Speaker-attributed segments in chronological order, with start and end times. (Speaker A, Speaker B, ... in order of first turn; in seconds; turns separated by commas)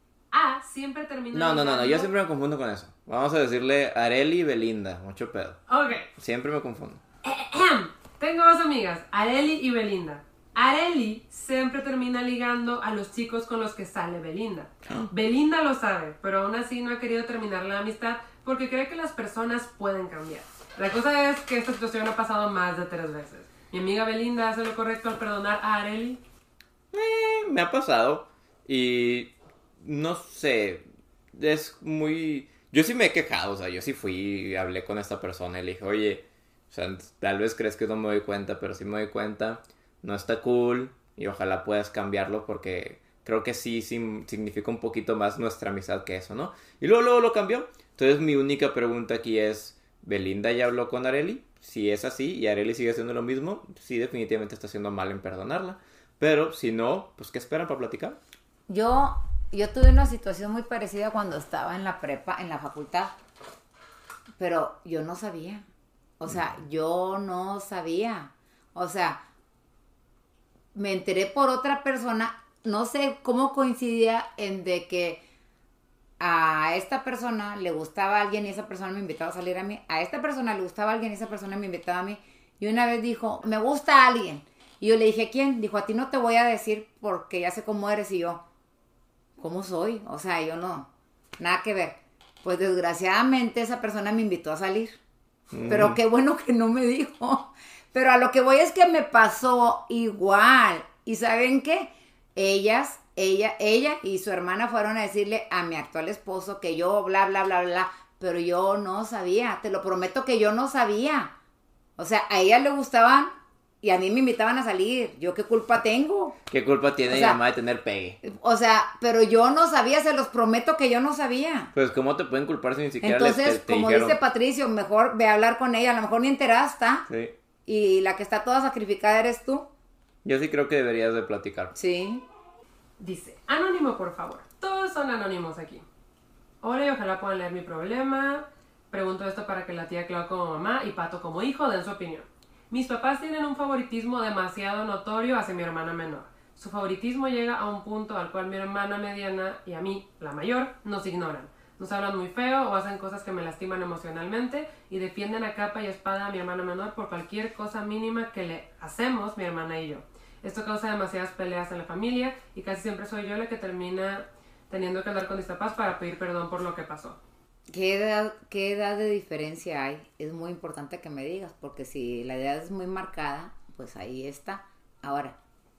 Speaker A: 0.3-2.1, Speaker B: 1.3-5.6, Speaker A: 5.7-6.1, Speaker B: 6.2-7.0, Speaker A: 7.2-26.2, Speaker B: 26.9-58.2, Speaker C: 58.7-63.1, Speaker C: 64.4-65.7, Speaker C: 66.2-69.2, Speaker C: 70.7-75.2, Speaker C: 76.2-88.4, Speaker C: 89.4-95.0, Speaker B: 95.5-96.0, Speaker C: 95.7-111.3, Speaker C: 112.0-113.3, Speaker C: 113.8-116.4, Speaker B: 116.5-118.2, Speaker C: 117.1-117.4, Speaker C: 118.2-121.7, Speaker B: 121.7-124.2, Speaker C: 123.0-127.1, Speaker B: 127.1-127.3, Speaker C: 127.7-129.7, Speaker B: 130.2-131.7, Speaker C: 131.8-132.2, Speaker A: 133.0-135.8, Speaker A: 136.6-167.2, Speaker C: 167.7-175.4